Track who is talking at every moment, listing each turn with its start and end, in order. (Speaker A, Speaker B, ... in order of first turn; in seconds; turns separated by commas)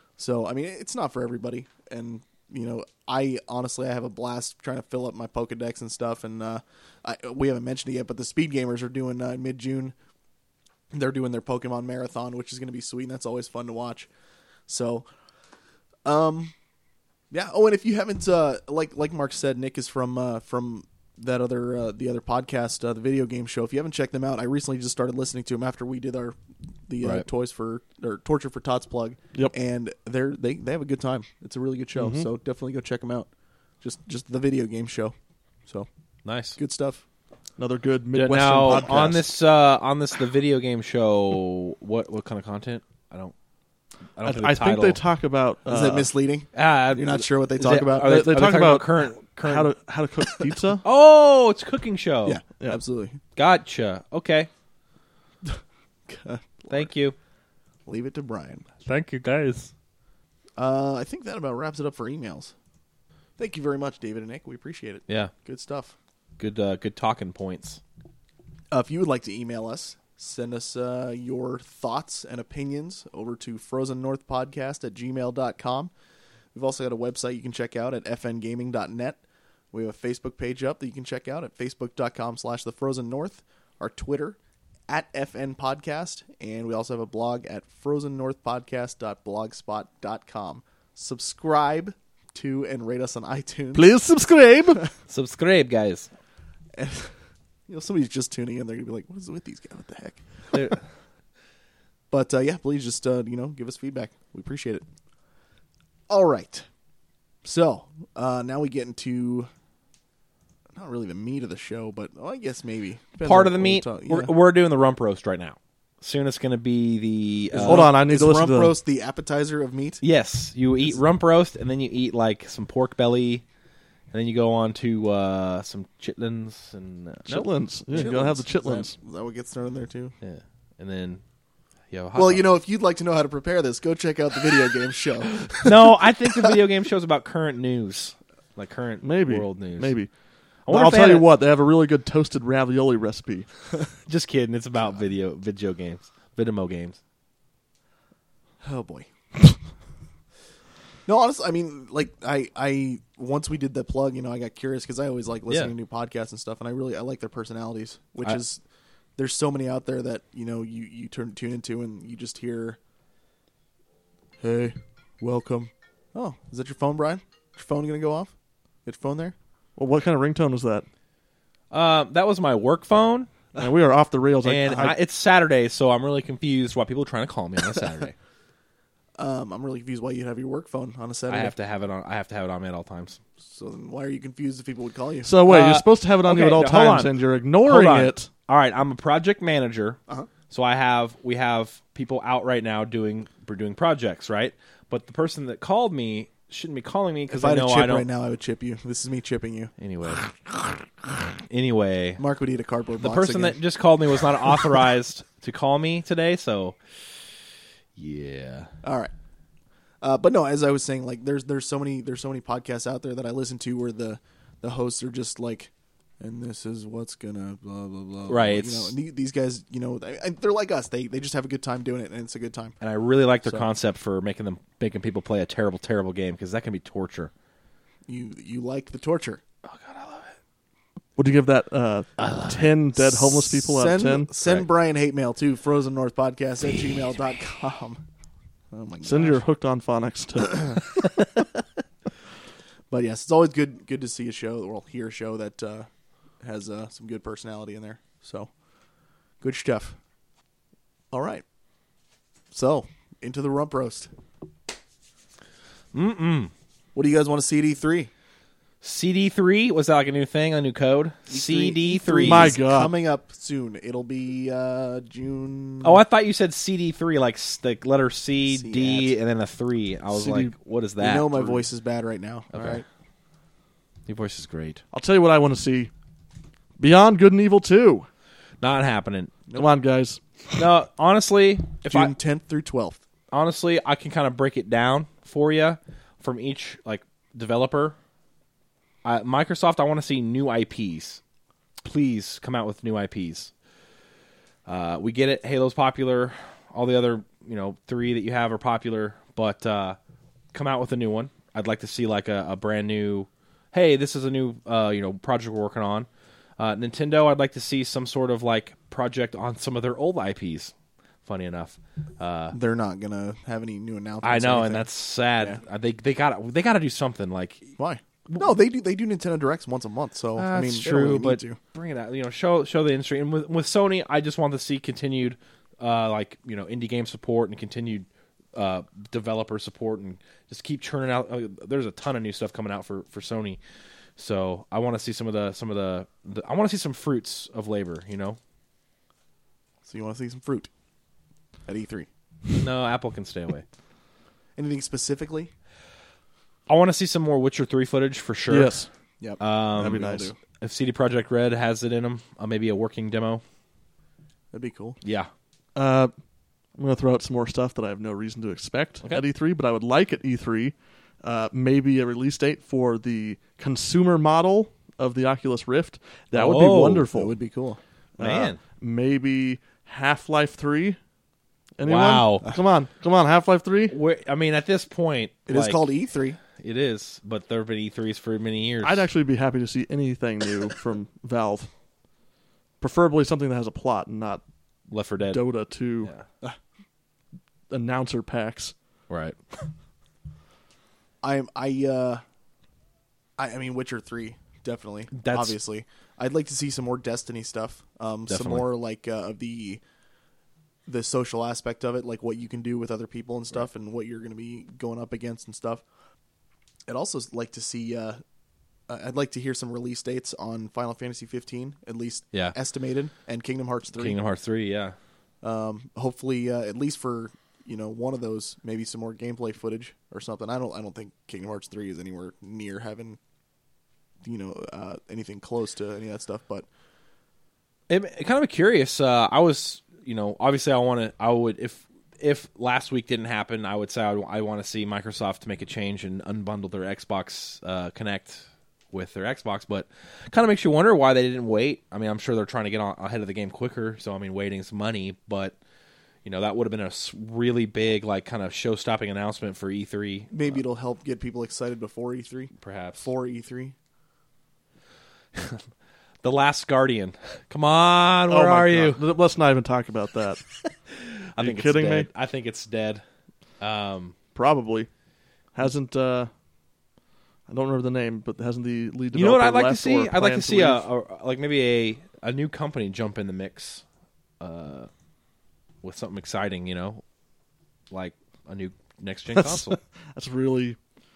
Speaker A: 0.2-9.9, Speaker A: 10.9-14.1, Speaker A: 14.7-15.1, Speaker A: 16.0-16.5, Speaker A: 17.3-33.3, Speaker B: 31.9-32.3, Speaker A: 33.8-35.1, Speaker C: 36.2-36.6, Speaker A: 36.5-37.0, Speaker B: 37.6-39.3, Speaker C: 38.1-43.3, Speaker A: 38.7-39.1, Speaker C: 44.1-45.0, Speaker B: 44.2-46.1, Speaker A: 45.7-48.2, Speaker C: 46.5-49.7, Speaker B: 48.0-50.8, Speaker C: 50.8-52.4, Speaker A: 52.2-53.2, Speaker C: 53.4-54.5, Speaker A: 55.4-56.9, Speaker C: 56.7-57.1, Speaker A: 57.9-58.6, Speaker C: 58.8-59.7, Speaker A: 60.6-62.5, Speaker A: 63.4-66.0, Speaker C: 66.4-67.8, Speaker A: 68.7-75.9, Speaker A: 76.5-79.2, Speaker A: 79.7-84.4, Speaker A: 84.9-93.8, Speaker B: 93.7-94.8, Speaker C: 95.1-96.1, Speaker A: 96.7-97.1, Speaker A: 97.7-100.8, Speaker C: 100.5-100.8, Speaker A: 102.1-104.8, Speaker A: 106.1-106.7, Speaker A: 107.4-109.5, Speaker A: 110.7-114.3, Speaker C: 113.2-117.9, Speaker A: 117.5-120.0, Speaker B: 117.5-118.7, Speaker C: 120.0-123.4, Speaker C: 124.1-128.1, Speaker B: 127.3-128.9, Speaker A: 127.9-130.1, Speaker C: 130.2-131.2, Speaker C: 131.9-132.4, Speaker A: 132.1-135.9, Speaker C: 135.6-139.9, Speaker B: 139.0-140.1, Speaker C: 140.7-141.3, Speaker B: 140.7-143.5, Speaker C: 144.1-147.0, Speaker A: 148.6-149.5, Speaker A: 151.1-158.6, Speaker A: 159.2-162.8, Speaker A: 164.4-168.3, Speaker A: 168.8-169.3, Speaker B: 169.8-170.8, Speaker C: 171.7-173.3, Speaker B: 173.6-174.9, Speaker C: 174.4-178.1, Speaker A: 179.2-181.5, Speaker C: 181.3-183.2, Speaker A: 183.4-185.3, Speaker B: 185.2-188.3, Speaker C: 185.4-190.0, Speaker C: 190.5-198.1, Speaker A: 197.3-199.7, Speaker C: 199.8-200.2, Speaker C: 201.4-202.2, Speaker A: 202.2-203.6, Speaker C: 203.0-206.8, Speaker C: 207.9-208.7, Speaker A: 208.8-209.1, Speaker A: 210.0-222.7, Speaker C: 218.3-218.9, Speaker C: 222.8-227.3, Speaker A: 228.1-229.4, Speaker C: 229.6-230.3, Speaker B: 231.2-234.3, Speaker C: 232.2-232.6, Speaker A: 233.0-238.0, Speaker A: 238.7-239.4, Speaker B: 239.0-241.0, Speaker A: 240.5-240.8, Speaker A: 242.9-245.9, Speaker A: 246.4-248.5, Speaker A: 249.4-250.0, Speaker A: 251.1-251.4, Speaker A: 252.5-254.1, Speaker C: 255.9-256.5, Speaker A: 256.9-258.1, Speaker C: 258.8-262.5, Speaker A: 261.3-266.0, Speaker B: 262.2-262.9, Speaker C: 265.8-271.6, Speaker A: 268.5-269.1, Speaker B: 270.1-270.5, Speaker A: 271.0-272.8, Speaker C: 272.5-272.8, Speaker C: 274.1-274.8, Speaker B: 274.9-275.9, Speaker B: 276.8-278.1, Speaker C: 278.6-279.4, Speaker B: 279.5-280.2, Speaker C: 280.5-282.1, Speaker A: 281.9-283.0, Speaker C: 283.3-287.9, Speaker C: 289.0-291.2, Speaker C: 291.8-293.5, Speaker C: 294.6-300.0, Speaker C: 300.5-310.7, Speaker C: 311.2-312.6, Speaker A: 312.5-314.9, Speaker C: 314.2-317.7, Speaker A: 317.8-321.6, Speaker C: 320.4-333.6, Speaker C: 334.2-338.4, Speaker A: 339.8-340.7, Speaker A: 341.6-342.1, Speaker C: 342.6-343.6, Speaker A: 344.6-345.5, Speaker C: 346.7-348.7, Speaker B: 348.5-348.9, Speaker A: 349.2-350.4, Speaker C: 349.4-353.4, Speaker B: 349.8-350.3, Speaker A: 354.5-355.0, Speaker C: 355.0-355.3, Speaker B: 355.8-356.1, Speaker B: 356.8-367.4, Speaker C: 366.3-367.1, Speaker A: 367.1-367.8, Speaker B: 368.2-371.0, Speaker C: 368.2-368.6, Speaker B: 371.8-373.9, Speaker C: 371.8-372.5, Speaker C: 373.9-375.8, Speaker A: 375.5-376.4, Speaker C: 376.6-379.1, Speaker B: 378.8-381.7, Speaker B: 382.8-384.4, Speaker C: 384.9-385.4, Speaker B: 385.3-386.1, Speaker B: 387.7-388.7, Speaker C: 389.1-389.4, Speaker A: 391.2-392.2, Speaker A: 393.4-399.8, Speaker C: 395.1-395.6, Speaker C: 398.3-398.6, Speaker A: 400.9-405.8, Speaker A: 406.9-408.2, Speaker A: 408.9-414.2, Speaker C: 413.9-414.9, Speaker A: 415.4-423.2, Speaker A: 424.2-426.7, Speaker C: 427.9-445.6, Speaker C: 446.2-450.6, Speaker A: 450.3-453.7, Speaker C: 452.6-453.1, Speaker C: 455.3-455.6, Speaker C: 456.2-459.0, Speaker B: 458.3-460.4, Speaker C: 460.9-463.0, Speaker B: 461.4-462.1, Speaker C: 463.6-464.1, Speaker B: 464.3-464.9, Speaker B: 465.5-466.3, Speaker B: 467.5-470.8, Speaker C: 469.1-473.8, Speaker C: 474.4-474.9, Speaker C: 475.8-477.0, Speaker C: 477.9-479.8, Speaker B: 479.3-480.8